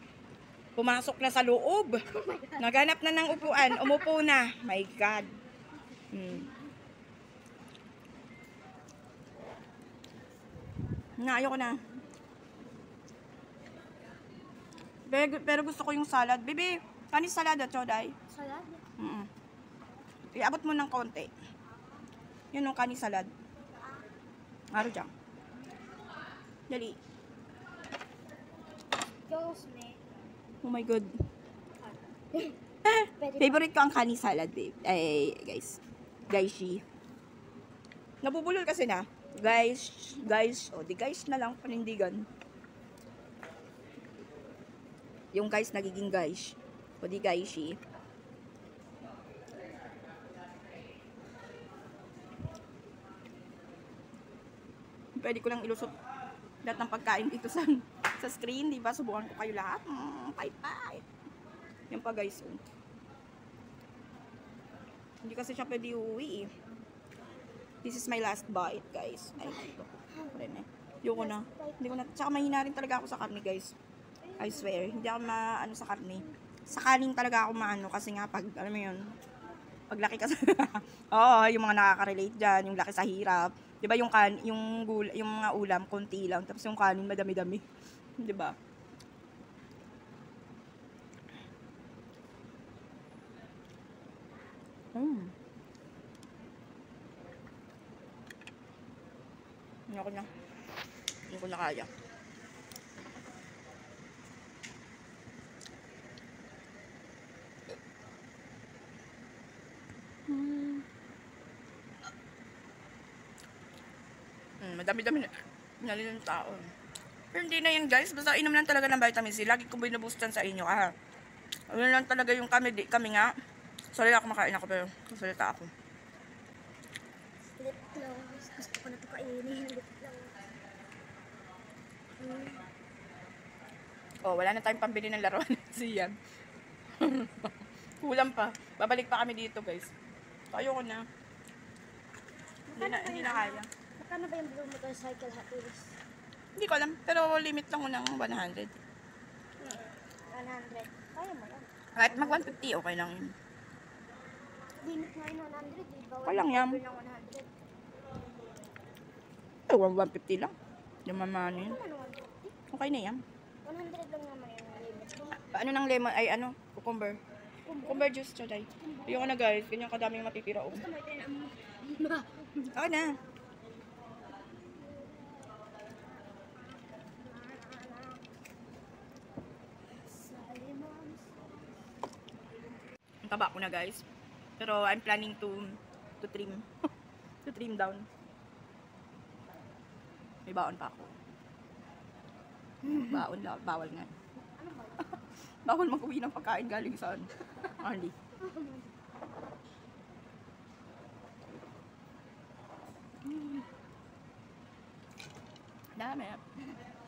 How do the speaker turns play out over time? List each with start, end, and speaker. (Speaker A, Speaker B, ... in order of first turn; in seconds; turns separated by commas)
Speaker A: 0.8-2.0, Speaker B: 2.1-2.7, Speaker A: 2.6-5.3, Speaker B: 3.5-4.1, Speaker A: 6.1-6.5, Speaker A: 11.2-11.8, Speaker A: 15.1-18.1, Speaker B: 18.3-18.8, Speaker A: 19.0-19.3, Speaker A: 20.3-21.3, Speaker A: 22.5-23.3, Speaker A: 24.7-25.1, Speaker A: 26.7-27.0, Speaker B: 29.2-30.0, Speaker A: 30.6-31.1, Speaker B: 31.8-32.6, Speaker A: 32.8-35.8, Speaker B: 33.2-33.7, Speaker A: 36.3-36.8, Speaker A: 38.2-42.3, Speaker A: 45.3-47.8, Speaker A: 55.2-55.9, Speaker A: 56.6-61.0, Speaker A: 61.9-62.6, Speaker A: 65.2-66.5, Speaker A: 67.8-73.7, Speaker B: 69.6-70.3, Speaker B: 71.1-71.8, Speaker B: 74.3-74.9, Speaker A: 74.4-79.1, Speaker A: 79.9-87.6, Speaker A: 88.2-88.5, Speaker A: 94.9-95.3, Speaker A: 99.9-100.3, Speaker A: 101.3-101.9, Speaker A: 110.3-110.8, Speaker A: 114.6-116.7, Speaker A: 117.3-120.9, Speaker A: 121.7-123.3, Speaker A: 124.0-125.7, Speaker B: 127.5-130.4, Speaker B: 132.1-132.6, Speaker A: 134.2-136.1, Speaker A: 137.0-139.9, Speaker A: 140.5-141.0, Speaker B: 142.7-146.0, Speaker A: 142.7-143.7, Speaker A: 146.6-148.8, Speaker B: 149.6-152.6, Speaker A: 151.9-153.3, Speaker B: 154.8-157.5, Speaker A: 156.2-156.8, Speaker A: 159.7-160.5, Speaker A: 161.1-161.8, Speaker B: 161.5-162.5, Speaker A: 162.7-163.2, Speaker B: 163.6-165.4, Speaker A: 165.4-167.2, Speaker B: 167.7-168.1, Speaker A: 167.8-170.8, Speaker B: 168.8-169.4, Speaker B: 170.7-173.2, Speaker A: 172.7-173.2, Speaker B: 174.5-178.2, Speaker B: 179.9-181.5, Speaker A: 183.2-184.0, Speaker A: 184.6-186.7, Speaker A: 187.4-188.1, Speaker A: 190.5-191.1, Speaker A: 192.8-194.1, Speaker B: 194.6-195.2, Speaker A: 195.6-198.1, Speaker B: 198.4-198.9, Speaker A: 203.3-203.6, Speaker A: 206.0-206.4